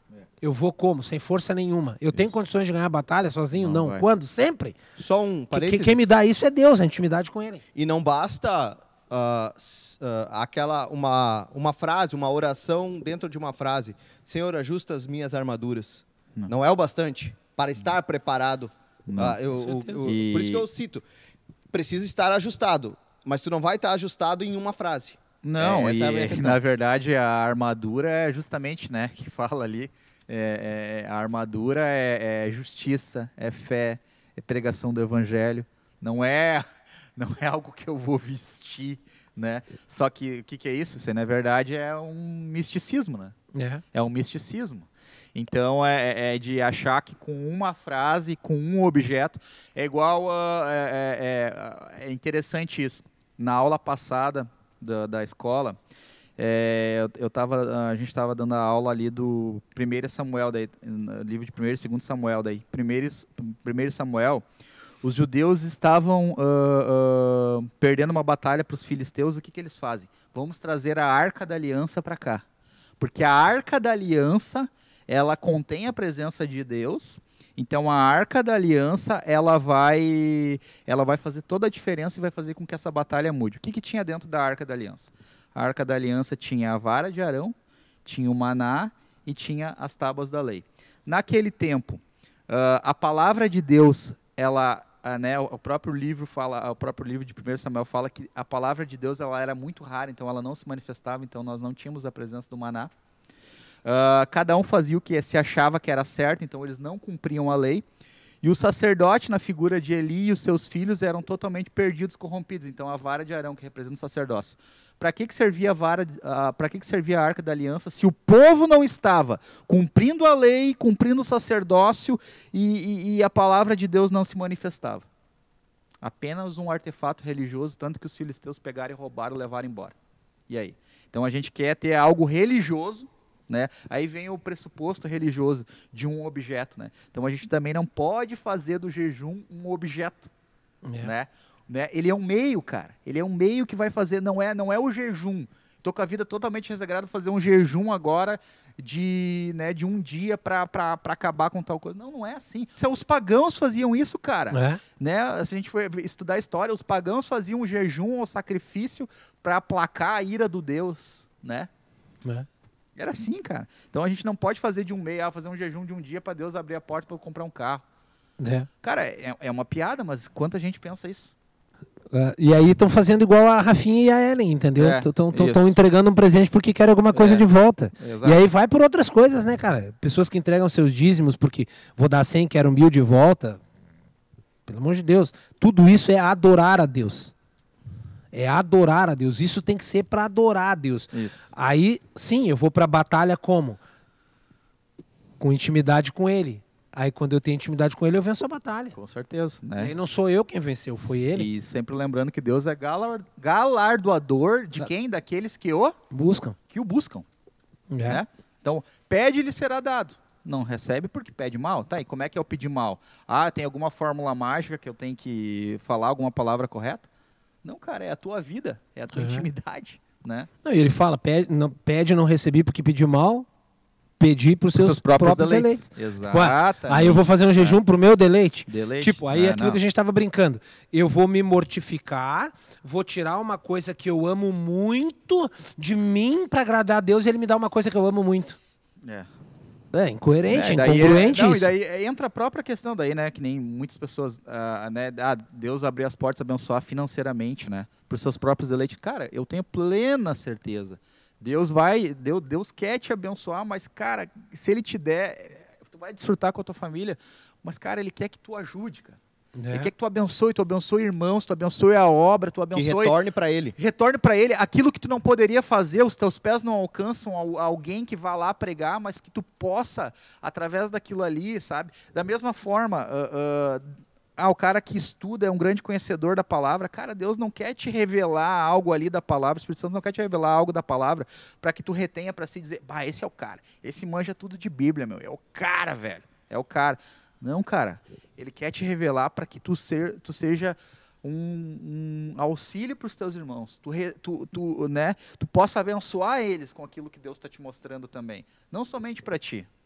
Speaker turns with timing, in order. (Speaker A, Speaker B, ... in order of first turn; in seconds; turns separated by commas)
Speaker A: 0.4-4.8, Speaker B: 3.6-4.0, Speaker C: 5.0-6.1, Speaker A: 5.5-7.6, Speaker C: 7.7-21.0, Speaker B: 19.1-19.4, Speaker A: 19.5-20.1, Speaker B: 20.0-20.6, Speaker C: 21.7-26.6, Speaker B: 25.4-36.6, Speaker B: 37.1-43.3, Speaker A: 43.5-43.8, Speaker B: 43.9-55.8, Speaker B: 56.4-64.4, Speaker B: 65.0-72.4, Speaker B: 73.0-87.5, Speaker B: 88.0-102.9, Speaker B: 103.8-107.8, Speaker B: 108.4-125.0, Speaker B: 126.0-129.9, Speaker B: 130.5-140.3, Speaker A: 140.8-141.1, Speaker B: 141.0-161.7, Speaker A: 154.5-154.8, Speaker B: 162.9-167.8, Speaker A: 168.4-168.7, Speaker B: 168.8-171.3, Speaker A: 172.1-183.6, Speaker B: 174.8-175.7, Speaker B: 177.1-177.4, Speaker B: 178.0-178.4, Speaker A: 184.7-187.3, Speaker A: 188.3-193.8, Speaker B: 191.1-191.5, Speaker A: 195.4-198.9, Speaker B: 198.9-199.9, Speaker A: 199.8-201.5, Speaker B: 201.3-206.0, Speaker A: 206.1-206.6, Speaker B: 206.7-207.2, Speaker A: 207.9-208.2, Speaker B: 208.1-217.1, Speaker B: 217.6-220.5, Speaker A: 219.1-219.5, Speaker A: 220.6-223.5, Speaker A: 224.2-238.6, Speaker B: 224.8-227.8, Speaker B: 228.7-229.8, Speaker B: 239.0-239.3, Speaker A: 239.9-241.7, Speaker B: 240.5-259.2, Speaker A: 259.6-259.9, Speaker B: 259.7-263.1, Speaker C: 262.7-263.8, Speaker B: 263.8-299.7